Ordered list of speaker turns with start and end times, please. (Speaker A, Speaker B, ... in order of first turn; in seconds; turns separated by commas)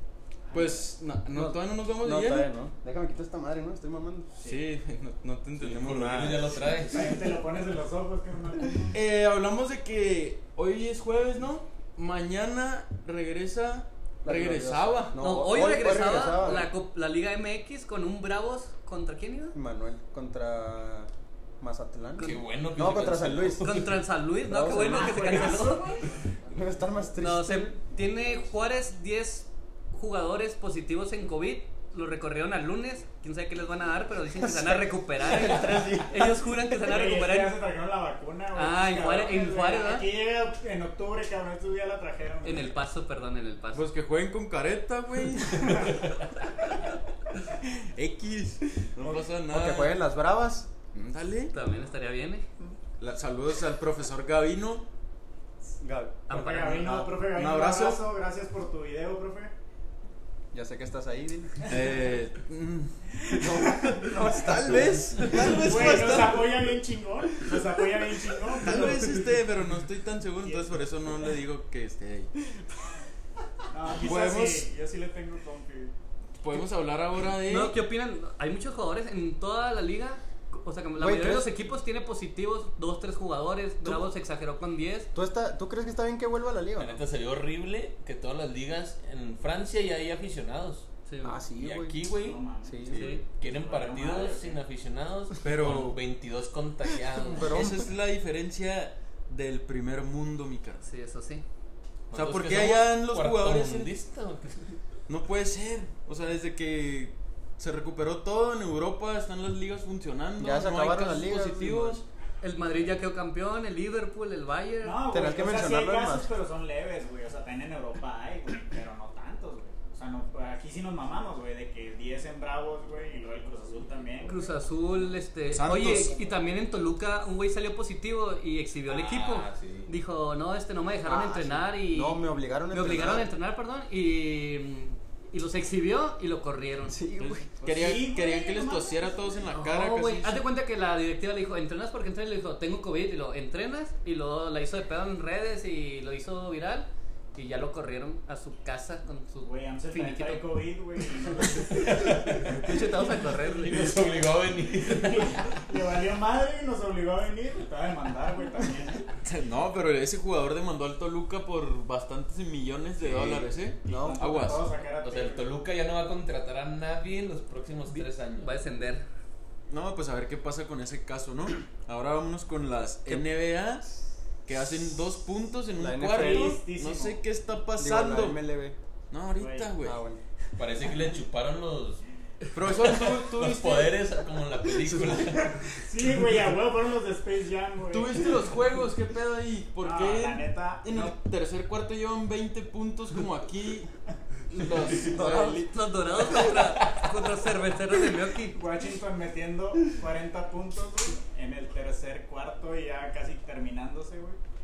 Speaker A: 0.5-2.5, Speaker B: 1.3-4.3, Speaker A: 4.4-6.5, Speaker C: 5.6-7.3, Speaker D: 6.8-9.0, Speaker A: 8.9-15.2, Speaker B: 14.2-16.7, Speaker E: 15.2-19.6, Speaker B: 19.5-21.1, Speaker B: 21.6-23.8, Speaker E: 22.2-22.4, Speaker C: 22.2-24.0, Speaker E: 23.4-25.9, Speaker B: 24.4-25.1, Speaker D: 24.6-26.1, Speaker C: 25.2-25.6, Speaker B: 26.5-27.8, Speaker E: 27.2-37.5, Speaker B: 34.4-36.5, Speaker D: 36.8-42.7, Speaker E: 38.5-40.1, Speaker E: 42.4-43.9, Speaker A: 43.7-46.1, Speaker A: 47.6-50.0, Speaker B: 49.5-50.7, Speaker A: 50.9-51.5, Speaker E: 51.5-52.5, Speaker A: 53.0-54.9, Speaker B: 55.8-56.2, Speaker D: 56.3-59.5, Speaker E: 56.3-57.1, Speaker A: 57.3-58.0, Speaker B: 60.5-61.7, Speaker A: 61.7-66.7, Speaker D: 63.2-64.5, Speaker B: 63.4-65.0, Speaker D: 65.6-69.2, Speaker A: 68.5-72.3, Speaker D: 70.4-70.7, Speaker D: 73.7-75.9, Speaker A: 74.0-74.7, Speaker A: 76.4-77.8, Speaker E: 77.4-85.1, Speaker B: 81.0-81.5, Speaker B: 85.1-87.0, Speaker C: 86.8-90.9, Speaker E: 91.1-91.4, Speaker B: 91.2-92.0, Speaker C: 91.6-92.4, Speaker D: 92.2-92.8, Speaker B: 92.6-93.1, Speaker E: 92.9-93.2, Speaker C: 92.9-97.5, Speaker D: 93.4-94.6, Speaker A: 95.4-96.0, Speaker B: 97.1-97.9, Speaker A: 97.4-100.9, Speaker E: 100.8-101.4, Speaker C: 102.1-104.7, Speaker A: 102.1-103.9, Speaker A: 105.1-112.0, Speaker B: 110.4-112.0, Speaker E: 112.4-115.0, Speaker D: 114.8-124.4, Speaker B: 115.1-116.3, Speaker E: 124.2-137.0, Speaker A: 125.5-126.1, Speaker C: 128.9-129.9, Speaker B: 131.1-133.3, Speaker B: 136.9-137.7, Speaker A: 137.2-140.4, Speaker D: 137.7-139.2, Speaker E: 139.5-150.6, Speaker D: 149.4-152.3, Speaker C: 151.8-152.6, Speaker E: 152.1-153.9, Speaker C: 153.4-155.5, Speaker D: 154.8-159.1, Speaker A: 159.2-164.7, Speaker C: 163.0-163.4, Speaker D: 163.8-165.5, Speaker B: 163.8-164.2, Speaker C: 165.0-168.6, Speaker E: 167.9-169.0, Speaker A: 169.7-173.9, Speaker A: 174.4-178.4, Speaker B: 175.8-176.6, Speaker D: 176.1-177.2, Speaker B: 177.8-178.8, Speaker A: 179.1-180.0, Speaker D: 179.4-179.7, Speaker B: 179.8-180.2, Speaker C: 180.6-182.0, Speaker A: 182.5-184.0, Speaker C: 182.6-185.6, Speaker D: 185.3-188.4, Speaker A: 187.9-193.9, Speaker D: 189.8-190.9, Speaker A: 194.5-195.7, Speaker E: 195.0-198.6, Speaker B: 195.1-195.6, Speaker D: 198.5-204.4